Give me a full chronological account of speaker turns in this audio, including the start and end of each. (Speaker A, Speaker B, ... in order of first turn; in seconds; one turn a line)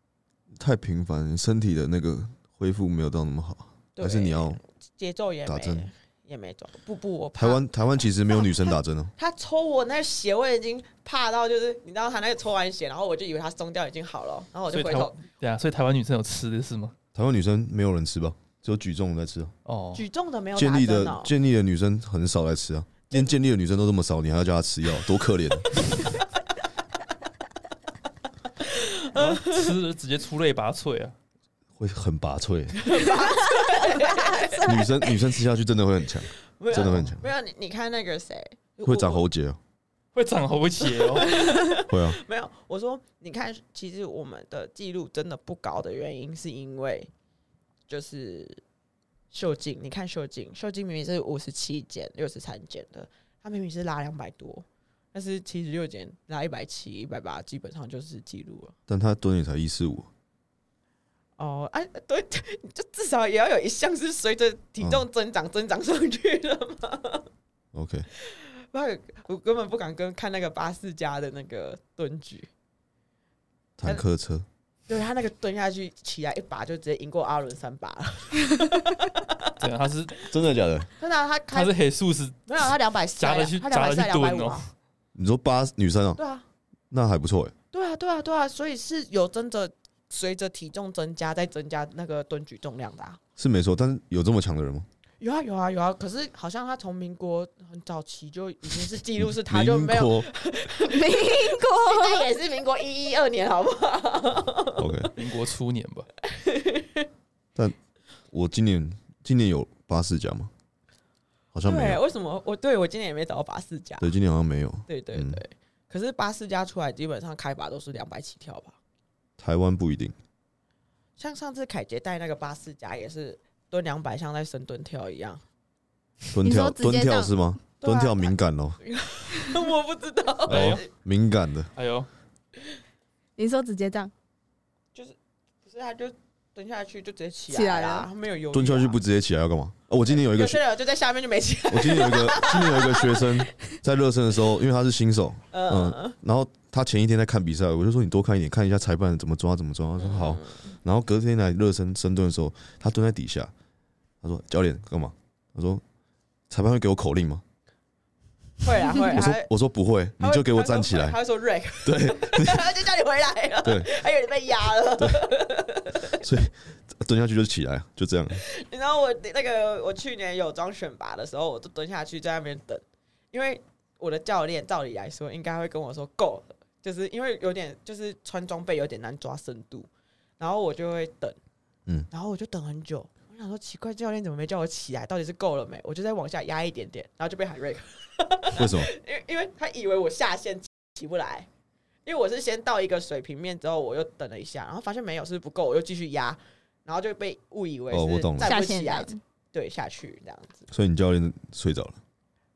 Speaker A: 0.5-4.6
Speaker B: 4.0-7.7
Speaker A: 5.5-5.9
Speaker A: 7.4-9.1
Speaker B: 8.3-15.2
Speaker C: 14.7-16.9
Speaker A: 17.1-19.5
Speaker C: 19.7-20.1
Speaker B: 19.9-21.3
Speaker A: 20.6-25.8
Speaker B: 28.6-29.7
Speaker C: 29.1-31.1
Speaker A: 31.8-33.1
Speaker B: 32.8-34.9
Speaker D: 33.9-34.6
Speaker A: 34.6-37.3
Speaker B: 36.6-39.2
Speaker A: 38.8-39.6
Speaker C: 40.1-41.4
Speaker B: 41.0-47.1
Speaker A: 41.9-42.2
Speaker B: 47.9-48.6
Speaker B: 49.3-58.7
Speaker A: 58.9-60.1
Speaker B: 61.4-67.3
Speaker A: 67.7-68.1
Speaker B: 68.1-72.5
Speaker A: 73.8-74.5
Speaker B: 74.9-79.6
Speaker C: 79.6-80.2
Speaker A: 80.3-80.9
Speaker B: 81.0-81.7
Speaker C: 81.5-82.5
Speaker B: 82.5-84.7
Speaker C: 83.2-84.6
Speaker A: 85.2-86.2
Speaker B: 86.2-86.5
Speaker A: 86.9-87.5
Speaker B: 87.7-93.2
Speaker A: 93.4-94.9
Speaker B: 95.2-105.1
Speaker A: 99.2-100.3
Speaker D: 100.8-102.3
Speaker A: 104.8-105.1
Speaker C: 105.2-106.1
Speaker B: 106.2-107.1
Speaker A: 108.3-110.5
Speaker A: 111.5-112.0
Speaker B: 111.6-114.1
Speaker A: 114.0-115.4
Speaker B: 114.9-118.8
Speaker A: 119.4-120.2
Speaker B: 121.2-125.4
Speaker A: 126.3-128.8
Speaker D: 126.4-127.3
Speaker B: 127.8-130.9
Speaker C: 130.5-130.8
Speaker A: 130.5-131.7
Speaker C: 131.8-132.1
Speaker D: 133.4-134.1
Speaker B: 134.9-139.0
Speaker D: 137.5-138.1
Speaker A: 138.5-140.6
Speaker B: 140.1-143.3
Speaker A: 141.7-153.5
Speaker B: 145.5-146.2
Speaker B: 150.0-150.7
Speaker A: 154.2-155.8
Speaker A: 156.5-157.4
Speaker B: 158.6-159.5
Speaker A: 159.1-161.2
Speaker B: 160.2-166.2
Speaker A: 161.8-162.7
Speaker A: 163.6-163.9
Speaker A: 166.2-168.4
Speaker B: 168.3-181.4
Speaker B: 182.1-191.5
Speaker A: 188.6-188.9
Speaker B: 192.1-200.7
Speaker A: 197.9-198.5
Speaker D: 198.4-199.2
Speaker A: 200.7-202.0